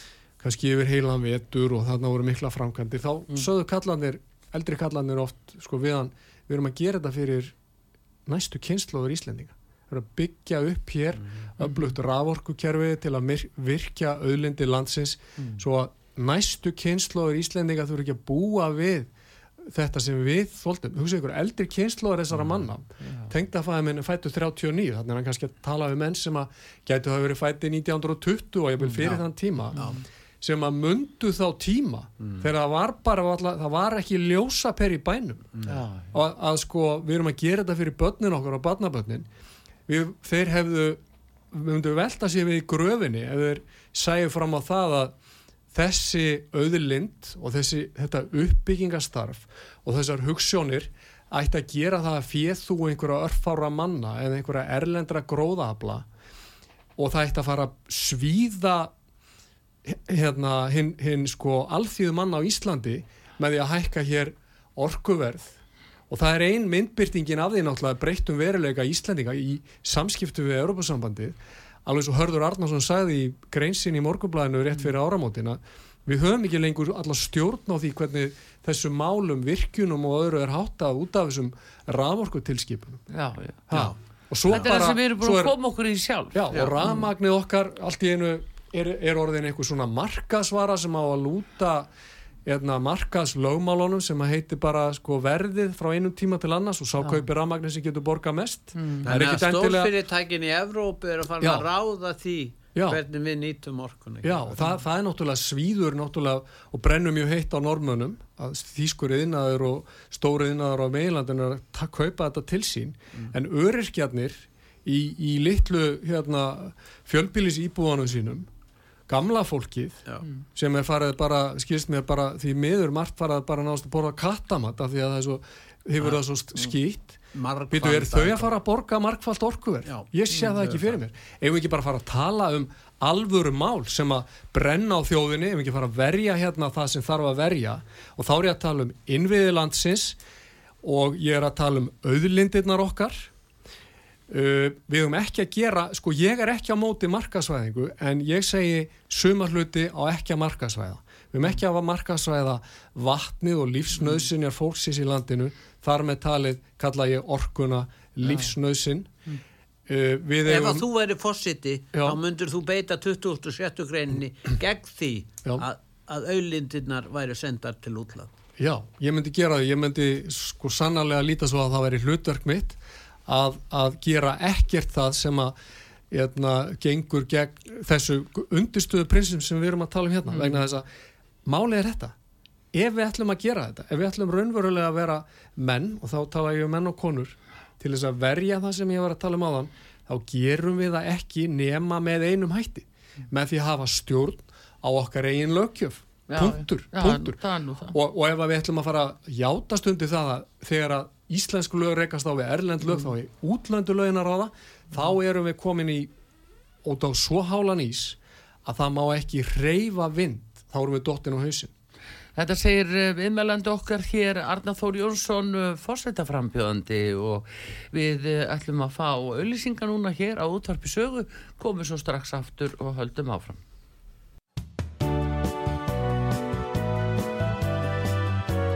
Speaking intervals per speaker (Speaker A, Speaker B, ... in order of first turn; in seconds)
Speaker A: 0.4-7.5, 8.3-19.1, 19.6-29.8, 30.4-35.6, 36.1-39.3, 39.9-45.1, 45.7-56.1, 57.0-58.9, 59.9-65.5, 66.1-83.0, 83.7-85.5, 86.3-91.9, 92.5-99.9, 101.4-101.7, 102.8-103.0, 104.2-118.5, 119.1-120.0, 120.5-140.2, 140.8-143.3, 144.3-159.1, 159.9-160.9, 168.6-175.6, 176.1-180.9, 181.4-182.2, 182.7-197.4, 197.9-206.1, 206.8-211.7
Speaker B: 11.6-11.9, 23.0-23.3, 29.7-30.0, 35.6-36.1, 83.1-83.7, 84.5-87.0, 98.8-99.0, 196.3-197.9, 212.4-223.6
Speaker C: 32.2-32.5, 35.5-35.8, 99.0-104.6, 127.3-128.5, 129.9-131.0, 160.4-168.3